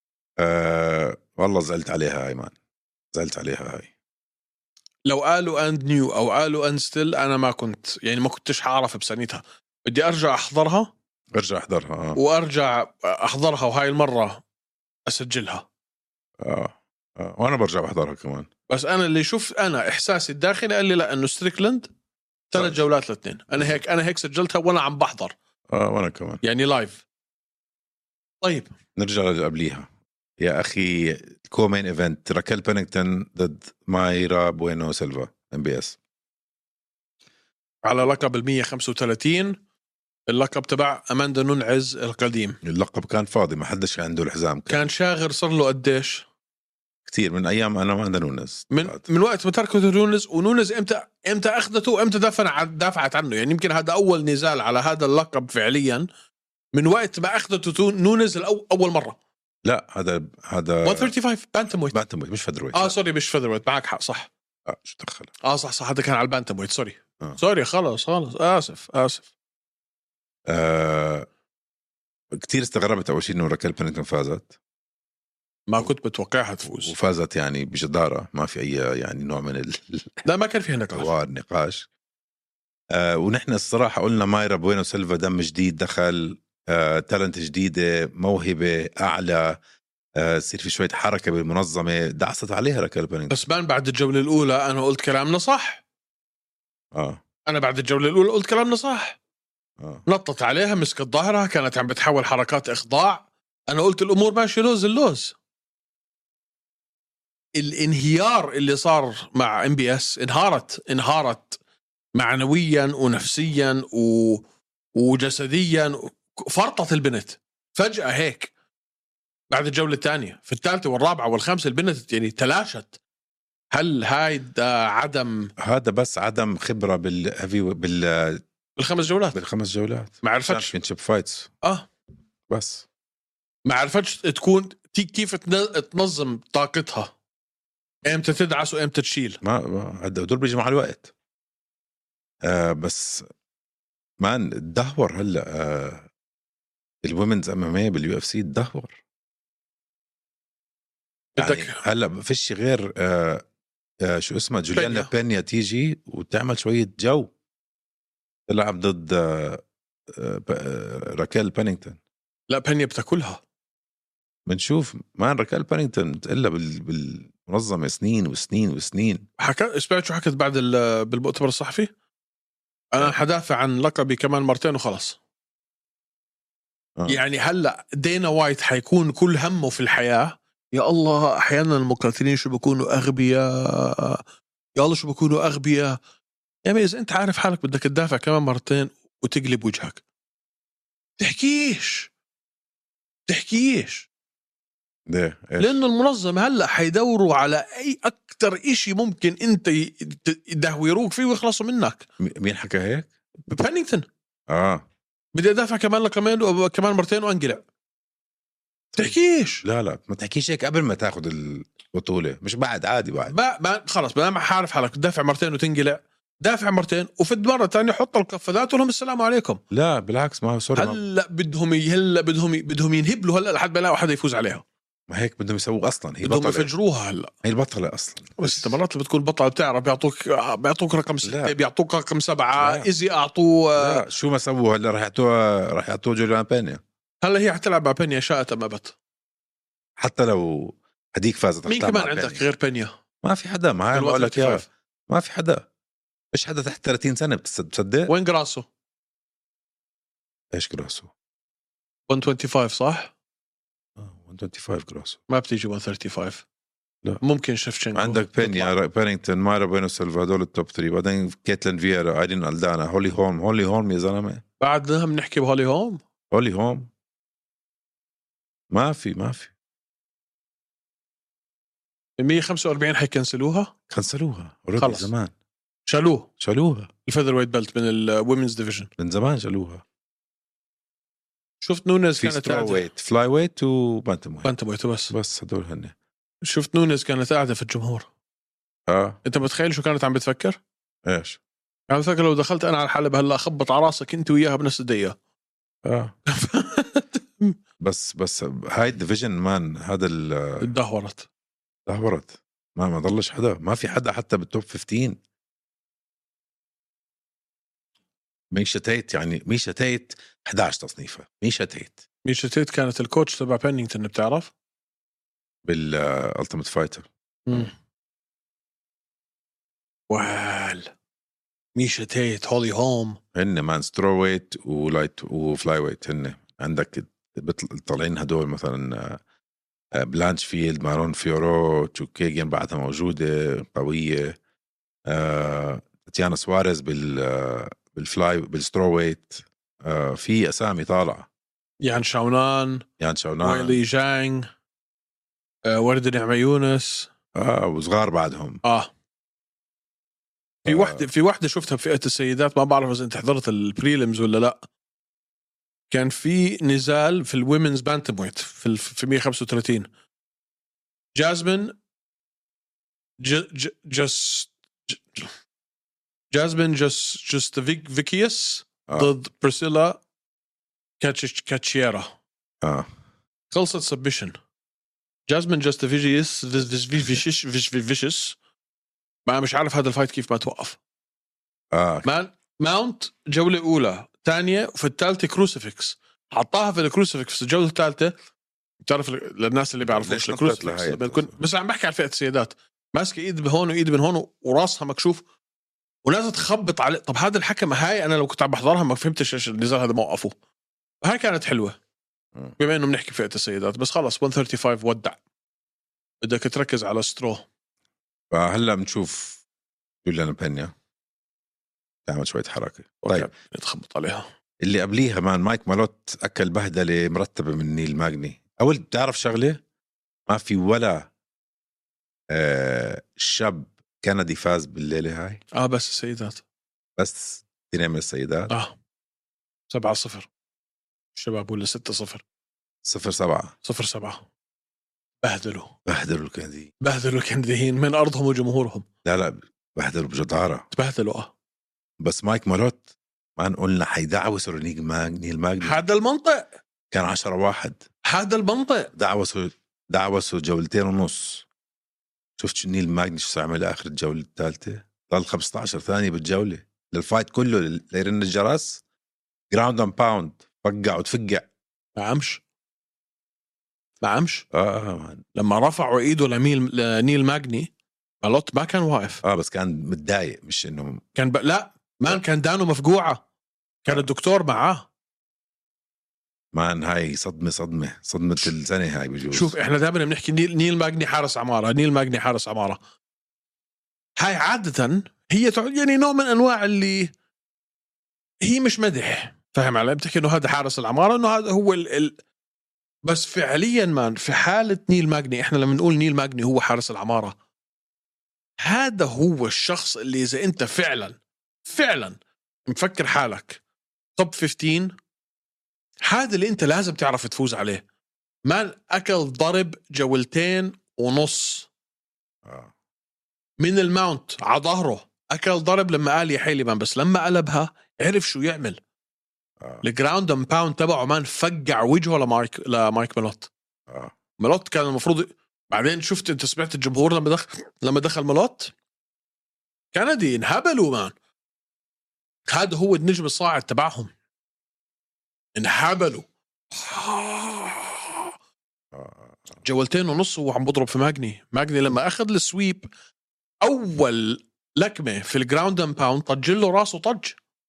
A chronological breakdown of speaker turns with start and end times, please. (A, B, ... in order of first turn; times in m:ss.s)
0:00.4-0:02.5 A
0:03.1-0:03.9 A
0:05.0-0:10.9 B
0:11.3-0:12.2 A
0:12.1-0:14.4 B
0:15.0-0:15.7 B
0:16.4-0:18.5 A
0:18.7-0:21.9 B
0:22.5-0:25.3 B
0:22.5-0:22.8 A
0:25.7-0:26.4 A
0:26.4-0:27.0 B
0:28.4-0:28.7 B
0:29.0-0:36.0 A
0:37.8-0:39.6 B
0:40.3-0:42.6 B
0:42.6-0:44.9 A
0:44.7-0:46.2 B
0:47.1-0:49.0 A
0:48.7-0:56.1 B
0:56.7-0:59.2 B
0:59.6-1:01.1 A
1:00.8-1:02.0 B
1:01.9-1:02.9 A
1:02.7-1:04.3 B
1:04.6-1:05.3 A
1:05.4-1:09.3 B
1:10.5-1:11.3 A
1:12.3-1:14.5 A
1:15.7-1:16.9 B
1:16.8-1:20.2 A
1:20.2-1:21.1 B
1:20.9-1:21.9 A
1:22.9-1:29.6 A
1:30.2-1:33.4 A
1:33.3-1:35.8 B
1:36.9-1:37.2 A
1:37.5-1:39.2 B
1:39.8-1:40.0 A
1:40.0-1:45.3 B
1:47.5-1:51.6 B
1:52.1-1:54.4 B
1:54.9-1:58.5 B
1:59.5-2:02.9 B
2:03.7-2:05.5 B
2:05.6-2:08.4 A
2:08.8-2:09.4 B
2:09.3-2:11.5 A
2:10.2-2:10.7 B
2:12.5-2:12.8 A
2:13.6-2:17.1 B
2:18.0-2:19.4 B
2:19.4-2:21.1 A
2:22.4-2:23.3 A
2:24.2-2:26.1 A
2:27.0-2:29.0 A
2:31.4-2:33.4 A
2:31.4-2:31.8 B
2:34.0-2:37.3 A
2:34.7-2:35.1 B
2:38.5-2:42.0 A
2:42.5-2:43.4 B
2:44.5-2:49.3 A
2:49.4-2:51.9 B
2:52.9-2:55.2 B
2:57.1-3:04.2 B
3:04.8-3:06.0 B
3:06.6-3:10.0 B
3:11.2-3:12.1 B
3:13.3-3:14.1 B
3:15.1-3:15.8 A
3:15.6-3:22.0 B
3:22.2-3:23.1 A
3:23.5-3:24.0 B
3:24.5-3:24.8 A
3:25.3-3:27.6 B
3:28.9-3:33.3 A
3:29.0-3:29.6 B
3:33.3-3:39.6 B
3:39.7-3:41.0 A
3:40.8-3:44.6 B
3:45.1-3:46.7 A
3:46.2-3:47.3 B
3:47.4-3:48.7 A
3:48.4-3:54.0 B
3:51.2-3:51.5 A
3:52.6-3:52.9 A
3:53.8-3:56.8 A
3:57.2-3:58.9 B
4:00.0-4:02.4 A
4:01.7-4:02.9 B
4:03.2-4:05.7 A
4:03.9-4:04.7 B
4:06.3-4:08.1 A
4:08.1-4:08.6 B
4:10.5-4:11.1 A
4:12.1-4:13.1 B
4:14.0-4:15.2 A
4:15.3-4:16.4 B
4:17.2-4:18.7 B
4:17.9-4:24.4 A
4:24.6-4:26.0 B
4:26.3-4:26.9 A
4:28.7-4:29.5 A
4:32.2-4:33.7 B
4:33.9-4:35.3 A
4:34.8-4:35.1 B
4:35.9-4:36.3 B
4:36.4-4:36.9 A
4:37.0-4:38.9 B
4:39.0-4:39.8 A
4:41.6-4:42.8 B
4:42.2-4:44.5 A
4:44.4-4:45.1 B
4:45.1-4:45.9 A
4:46.4-4:48.0 B
4:48.9-4:49.2 A
4:49.2-4:50.6 B
4:51.0-4:51.4 A
4:51.9-4:55.1 B
4:55.8-4:56.1 A
4:56.3-4:57.5 B
4:57.8-5:00.7 A
5:00.6-5:01.3 B
5:01.9-5:05.2 A
5:08.5-5:12.0 A
5:12.2-5:14.5 B
5:15.6-5:17.7 A
5:17.5-5:17.7 B
5:20.1-5:20.9 B
5:21.8-5:23.2 B
5:23.3-5:29.2 A
5:29.9-5:34.4 A
5:35.1-5:41.3 A
5:41.8-5:42.8 B
5:43.0-5:43.8 A
5:43.4-5:44.5 B
5:45.6-5:47.1 B
5:47.3-5:48.6 A
5:48.6-5:48.9 B
5:50.6-5:51.1 A
5:50.6-5:54.6 B
5:55.9-5:59.9 B
6:01.1-6:01.7 B
6:03.2-6:05.3 B
6:06.3-6:10.0 B
6:08.9-6:09.1 A
6:11.0-6:12.1 B
6:12.6-6:12.9 A
6:13.5-6:14.4 B
6:15.3-6:18.4 B
6:19.2-6:20.8 B
6:21.7-6:22.0 A
6:22.0-6:28.1 B
6:28.8-6:35.2 B
6:29.8-6:31.4 A
6:36.0-6:40.3 B
6:41.0-6:41.8 B
6:42.6-6:45.2 B
6:46.2-6:47.4 B
6:48.3-6:49.4 A
6:50.0-6:50.7 A
6:52.0-6:53.3 A
6:53.0-6:54.2 B
6:54.6-6:59.6 A
7:00.3-7:01.1 A
7:02.3-7:05.4 A
7:05.5-7:06.4 B
7:07.0-7:08.5 A
7:09.7-7:10.3 B
7:11.1-7:12.2 B
7:12.8-7:13.5 A
7:13.6-7:14.2 B
7:15.2-7:15.7 B
7:15.9-7:16.7 A
7:16.8-7:18.8 B
7:19.0-7:20.7 A
7:20.7-7:21.3 B
7:22.0-7:25.8 A
7:25.6-7:26.5 B
7:26.9-7:27.8 A
7:28.0-7:28.9 B
7:28.9-7:31.4 A
7:32.4-7:38.8 A
7:39.5-7:41.5 A
7:42.0-7:42.4 B
7:44.0-7:44.4 B
7:44.5-7:45.2 A
7:45.3-7:47.7 B
7:48.2-7:49.2 B
7:49.2-7:51.0 A
7:51.2-7:53.2 B
7:53.8-7:54.9 B
7:56.5-7:59.6 A
7:59.3-8:02.8 B
8:04.2-8:07.1 B
8:08.4-8:12.2 B
8:13.0-8:17.3 B
8:18.6-8:23.6 B
8:24.2-8:24.9 B
8:26.0-8:27.8 B
8:28.4-8:31.7 B
8:32.4-8:32.7 A
8:33.6-8:38.8 B
8:39.8-8:43.5 B
8:43.9-8:44.1 A
8:44.4-8:48.7 B
8:49.9-8:51.1 B
8:52.5-8:54.1 B
8:55.6-8:58.3 B
8:58.9-8:59.6 A
8:59.6-9:02.9 B
9:03.6-9:07.4 B